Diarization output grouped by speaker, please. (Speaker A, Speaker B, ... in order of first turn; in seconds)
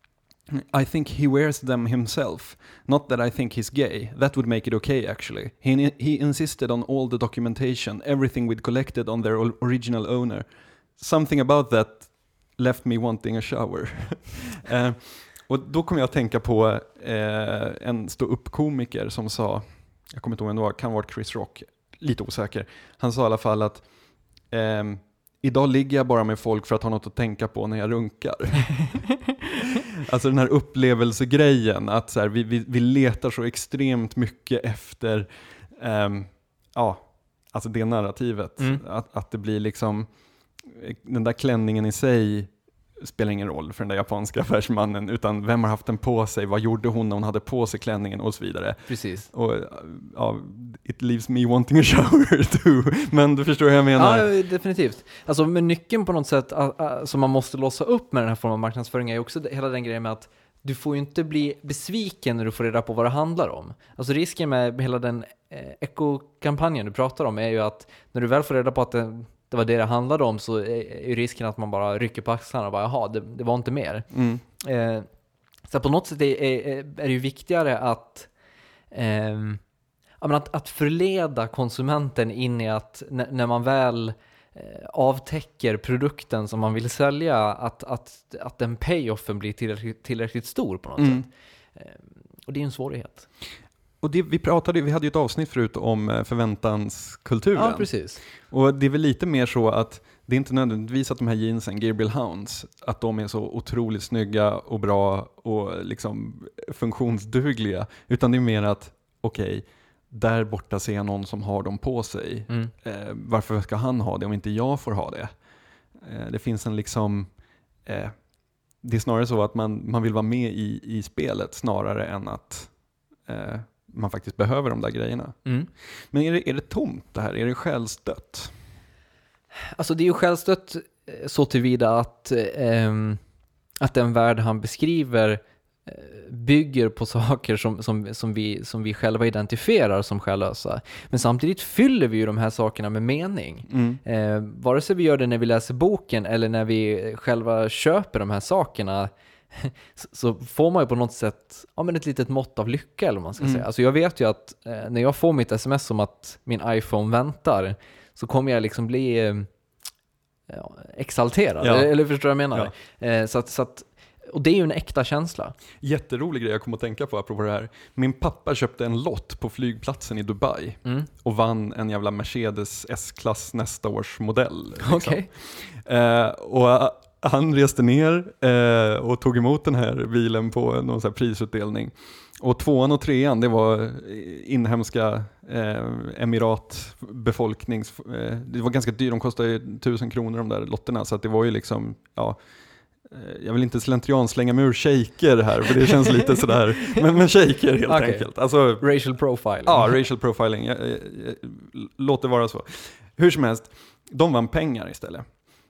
Speaker A: 0.5-23.9, 24.5-29.0, 29.9-40.1, 40.6-54.3, 74.1-74.4, 91.0-91.3, 94.0-115.3, 116.0-117.3, 117.8-118.2, 118.8-122.7, 123.2-125.4, 126.1-128.6, 143.7-144.0, 153.4-153.7, 161.6-161.9, 165.8-192.4, 193.1-198.9, 199.6-205.3
Speaker B: 48.9-49.3, 54.0-75.1, 75.7-78.3, 78.9-79.6, 80.2-93.3, 97.5-98.2, 129.8-133.2, 133.8-159.5, 160.5-165.6, 174.8-175.3, 197.9-199.9